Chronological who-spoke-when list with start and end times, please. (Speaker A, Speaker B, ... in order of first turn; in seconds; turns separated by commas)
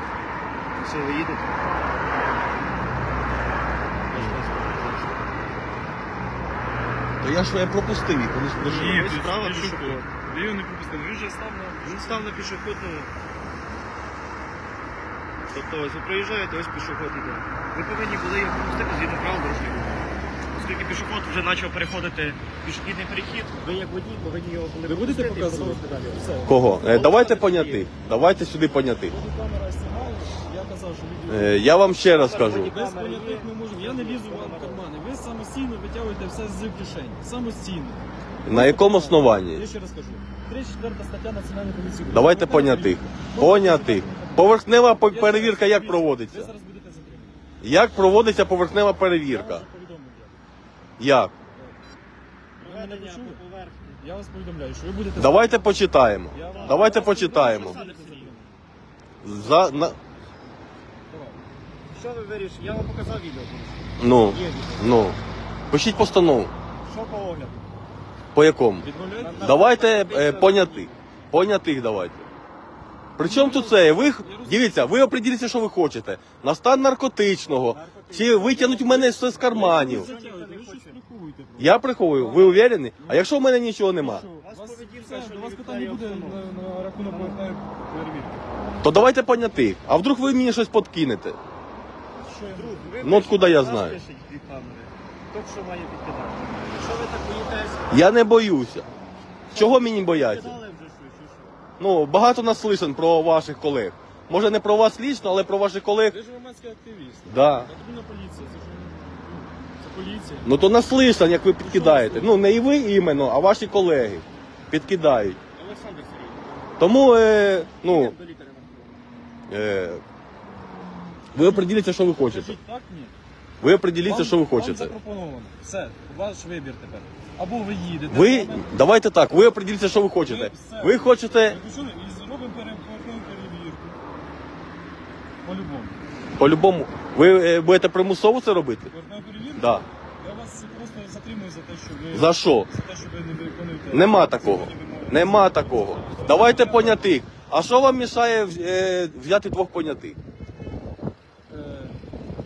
Speaker A: 0.8-1.8, Speaker A: 4.1-5.3, Speaker B: 7.2-9.1, Speaker A: 8.6-10.2, Speaker C: 8.7-12.4, Speaker A: 11.8-13.1, Speaker A: 15.5-20.0, Speaker A: 20.5-26.3, Speaker C: 24.9-26.6, Speaker B: 26.4-29.2, Speaker A: 26.8-27.9, Speaker C: 29.1-31.7, Speaker B: 31.3-32.7, Speaker A: 32.0-34.9, Speaker C: 32.5-47.4, Speaker B: 38.5-39.6, Speaker B: 42.1-46.5, Speaker B: 47.6-49.6, Speaker C: 49.2-50.4, Speaker B: 51.0-51.3, Speaker A: 52.6-54.0, Speaker C: 52.6-53.4, Speaker C: 54.0-55.6, Speaker B: 55.2-57.8, Speaker C: 56.3-58.6, Speaker A: 56.5-58.4, Speaker B: 59.2-60.0, Speaker C: 61.1-61.4, Speaker A: 61.9-65.1, Speaker B: 64.0-65.2, Speaker B: 65.7-66.5, Speaker A: 66.8-67.7, Speaker B: 68.3-68.9, Speaker C: 68.8-69.5, Speaker A: 69.2-71.0, Speaker B: 69.4-72.3, Speaker B: 73.2-80.1, Speaker C: 73.2-75.0, Speaker A: 77.6-81.0, Speaker C: 79.5-83.3, Speaker B: 81.6-84.3, Speaker C: 84.0-88.5, Speaker A: 84.4-86.4, Speaker A: 87.0-87.5, Speaker B: 88.8-91.4, Speaker C: 92.2-92.9, Speaker A: 92.5-98.0, Speaker B: 93.0-94.0, Speaker B: 97.9-98.9, Speaker A: 99.5-101.5, Speaker B: 99.5-100.6, Speaker B: 101.8-106.2, Speaker C: 106.1-110.5, Speaker B: 107.3-107.7, Speaker B: 110.4-115.4, Speaker A: 111.7-112.3, Speaker C: 111.8-112.1, Speaker A: 115.5-117.0, Speaker B: 116.8-118.1, Speaker A: 117.8-119.2, Speaker B: 119.5-120.0, Speaker B: 121.3-122.6, Speaker C: 121.4-123.1, Speaker B: 123.6-125.0, Speaker C: 124.0-128.7, Speaker B: 128.1-131.6, Speaker C: 130.2-134.0, Speaker C: 135.4-136.0, Speaker B: 136.4-138.9, Speaker C: 138.9-147.1, Speaker B: 139.6-139.8, Speaker B: 142.1-142.7, Speaker B: 143.9-150.2, Speaker C: 151.5-152.0